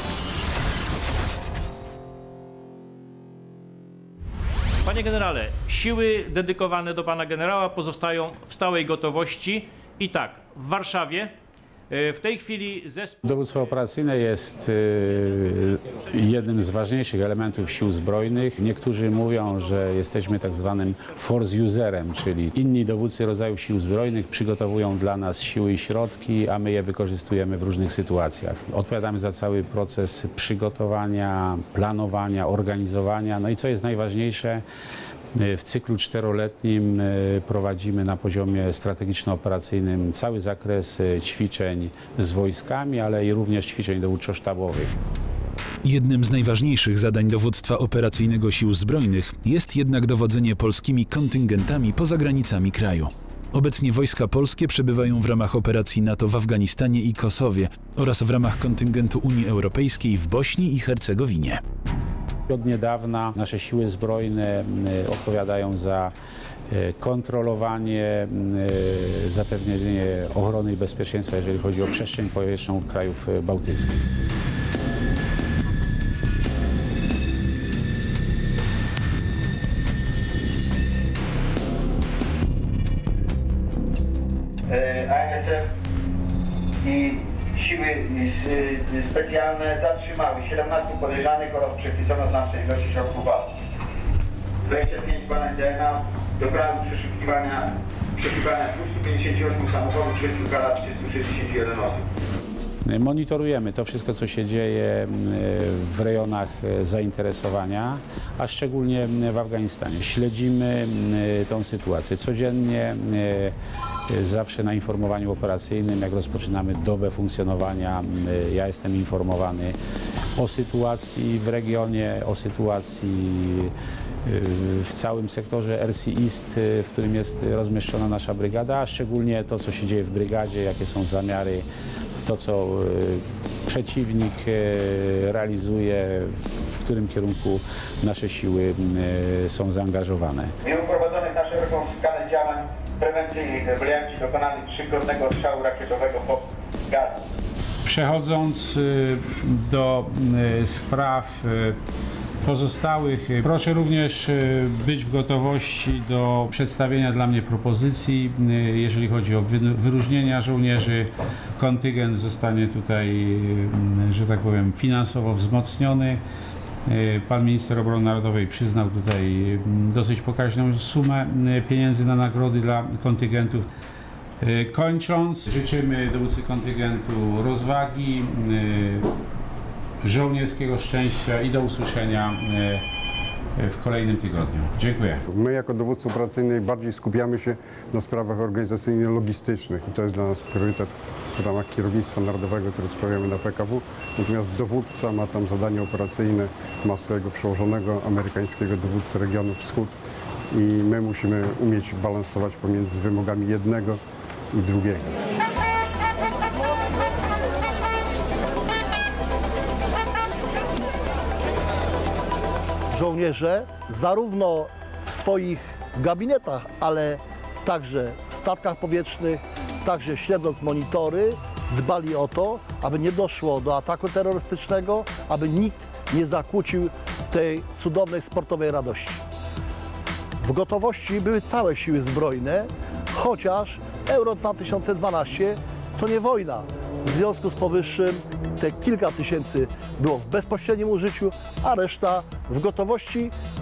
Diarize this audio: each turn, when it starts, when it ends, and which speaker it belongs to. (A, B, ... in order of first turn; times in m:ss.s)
0:04.8-0:11.3 A
0:11.9-0:13.2 A
0:13.2-0:34.6 B
0:35.4-0:45.0 B
0:45.8-1:01.6 C
1:02.5-1:06.1 B
1:06.7-1:14.1 B
1:24.7-1:25.7 D
1:26.8-1:33.5 D
1:34.7-1:42.0 D
1:42.8-1:53.5 B
1:54.1-1:59.8 B
2:00.4-2:11.7 B
2:12.2-2:20.5 B
2:20.6-2:27.2 D
2:27.8-2:31.8 B
2:32.4-2:46.2 B
2:46.9-2:53.7 B
2:54.4-2:59.1 B
3:00.0-3:02.8 B
3:03.6-3:05.2 B
3:05.3-3:19.9 E
3:20.5-3:24.0 E
3:24.5-3:25.2 E
3:32.9-3:49.2 F
3:50.4-4:03.3 F